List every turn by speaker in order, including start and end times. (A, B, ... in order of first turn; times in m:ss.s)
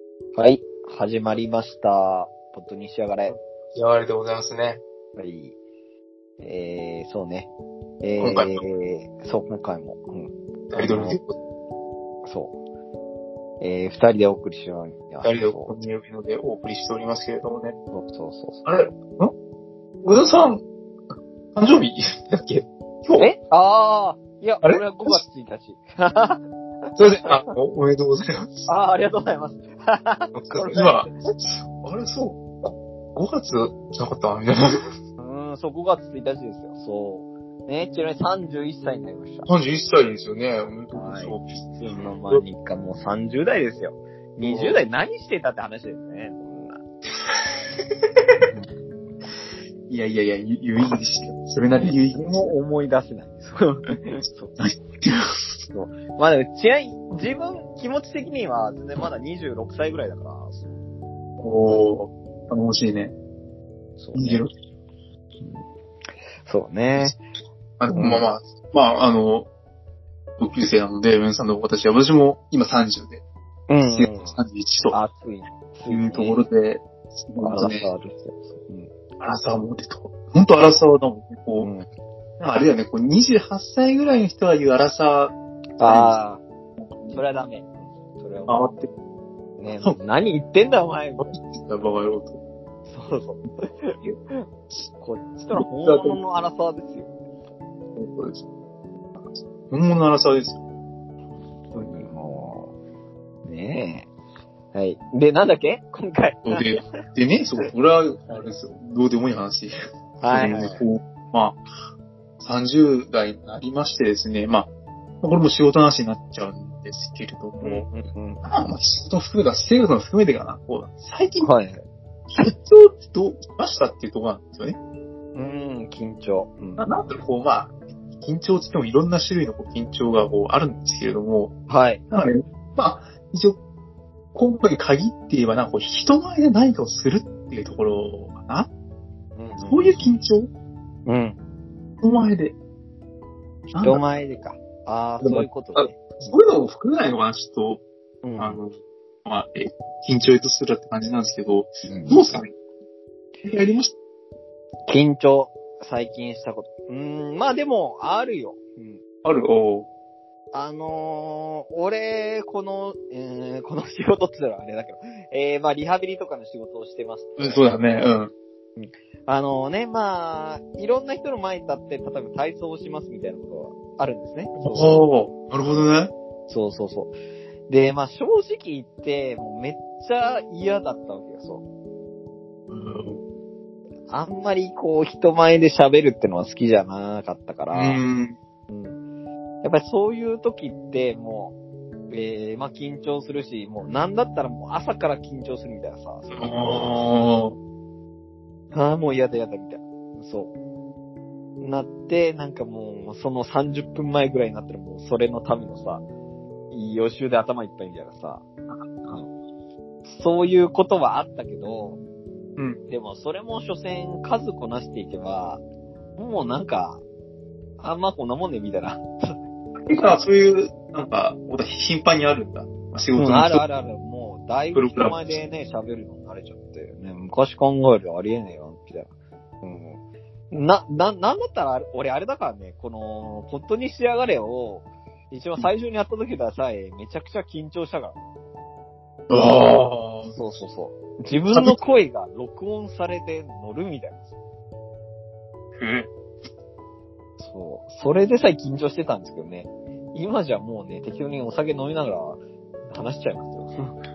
0:00.4-0:03.4 A
0:03.3-0:04.8 B
0:05.2-0:05.6 A
0:06.4-0:07.5 A
0:08.0-0:11.2 A
0:08.2-0:08.6 B
0:10.7-0:11.4 B
0:12.2-0:12.6 A
0:13.6-0:15.7 A
0:15.2-0:17.8 B
0:17.9-0:18.7 A
0:18.6-0:19.3 B
0:20.0-0:20.6 B
0:21.6-0:23.3 B
0:23.2-0:27.5 A
0:24.6-0:25.2 B
0:27.0-0:28.7 B
0:28.7-0:31.2 A
0:30.3-0:34.6 B
0:35.2-0:39.5 A
0:39.5-0:41.7 B
0:40.9-0:46.8 A
0:44.4-0:44.8 B
0:48.4-0:48.7 A
0:49.9-0:52.6 B
0:51.7-0:54.6 A
0:54.6-0:55.2 B
0:55.7-1:00.8 A
1:01.4-1:03.1 B
1:04.0-1:04.4 A
1:04.1-1:04.5 B
1:06.4-1:07.2 A
1:07.8-1:09.5 B
1:07.9-1:08.3 A
1:10.4-1:13.2 B
1:13.7-1:14.4 A
1:13.8-1:15.0 B
1:14.9-1:16.4 A
1:15.9-1:17.9 B
1:17.4-1:18.9 A
1:19.2-1:21.7 B
1:21.6-1:21.9 A
1:22.4-1:26.2 B
1:25.8-1:26.4 A
1:26.9-1:27.2 B
1:27.1-1:28.7 A
1:28.5-1:28.9 B
1:29.6-1:31.3 A
1:31.2-1:32.4 B
1:32.9-1:34.4 A
1:35.0-1:37.1 A
1:35.5-1:36.2 B
1:38.0-1:38.4 B
1:39.7-1:40.6 B
1:41.8-1:42.7 A
1:43.4-1:44.1 A
1:44.7-1:46.7 A
1:46.4-1:49.7 B
1:50.2-1:50.9 A
1:50.3-1:51.6 B
1:52.4-1:54.7 B
1:55.2-1:57.9 B
1:57.6-1:58.4 A
1:58.4-2:01.5 B
2:01.4-2:01.8 A
2:02.4-2:04.8 B
2:05.3-2:06.9 A
2:06.8-2:11.5 B
2:11.7-2:12.0 A
2:12.1-2:13.6 B
2:14.3-2:18.7 B
2:19.4-2:20.0 A
2:19.6-2:20.5 B
2:21.1-2:21.4 A
2:22.0-2:22.6 B
2:23.7-2:24.0 B
2:23.8-2:26.4 A
2:25.2-2:27.8 B
2:28.2-2:28.6 A
2:28.4-2:32.5 B
2:31.9-2:32.3 A
2:33.4-2:34.0 B
2:34.9-2:39.0 A
2:39.2-2:39.9 B
2:40.5-2:47.8 A
2:47.4-2:48.3 B
2:48.8-2:55.0 A
2:54.6-2:56.1 B
2:56.5-2:57.1 A
2:57.7-3:01.6 A
3:02.7-3:03.2 B
3:04.1-3:08.0 A
3:07.7-3:08.4 B
3:08.7-3:09.0 A
3:09.6-3:11.5 A
3:12.1-3:16.9 A
3:16.4-3:17.6 B
3:18.7-3:20.5 A
3:21.6-3:26.0 A
3:26.7-3:28.4 A
3:29.0-3:29.3 A
3:30.1-3:32.0 A
3:32.9-3:35.6 A
3:36.2-3:37.0 A
3:37.8-3:39.4 A
3:39.9-3:43.6 B
3:43.2-3:49.1 A
3:44.7-3:45.4 B
3:49.6-3:50.0 A
3:50.5-3:58.2 A
3:59.3-4:00.4 B
4:00.4-4:04.2 A
4:01.3-4:01.8 B
4:05.8-4:06.1 B
4:07.4-4:13.9 A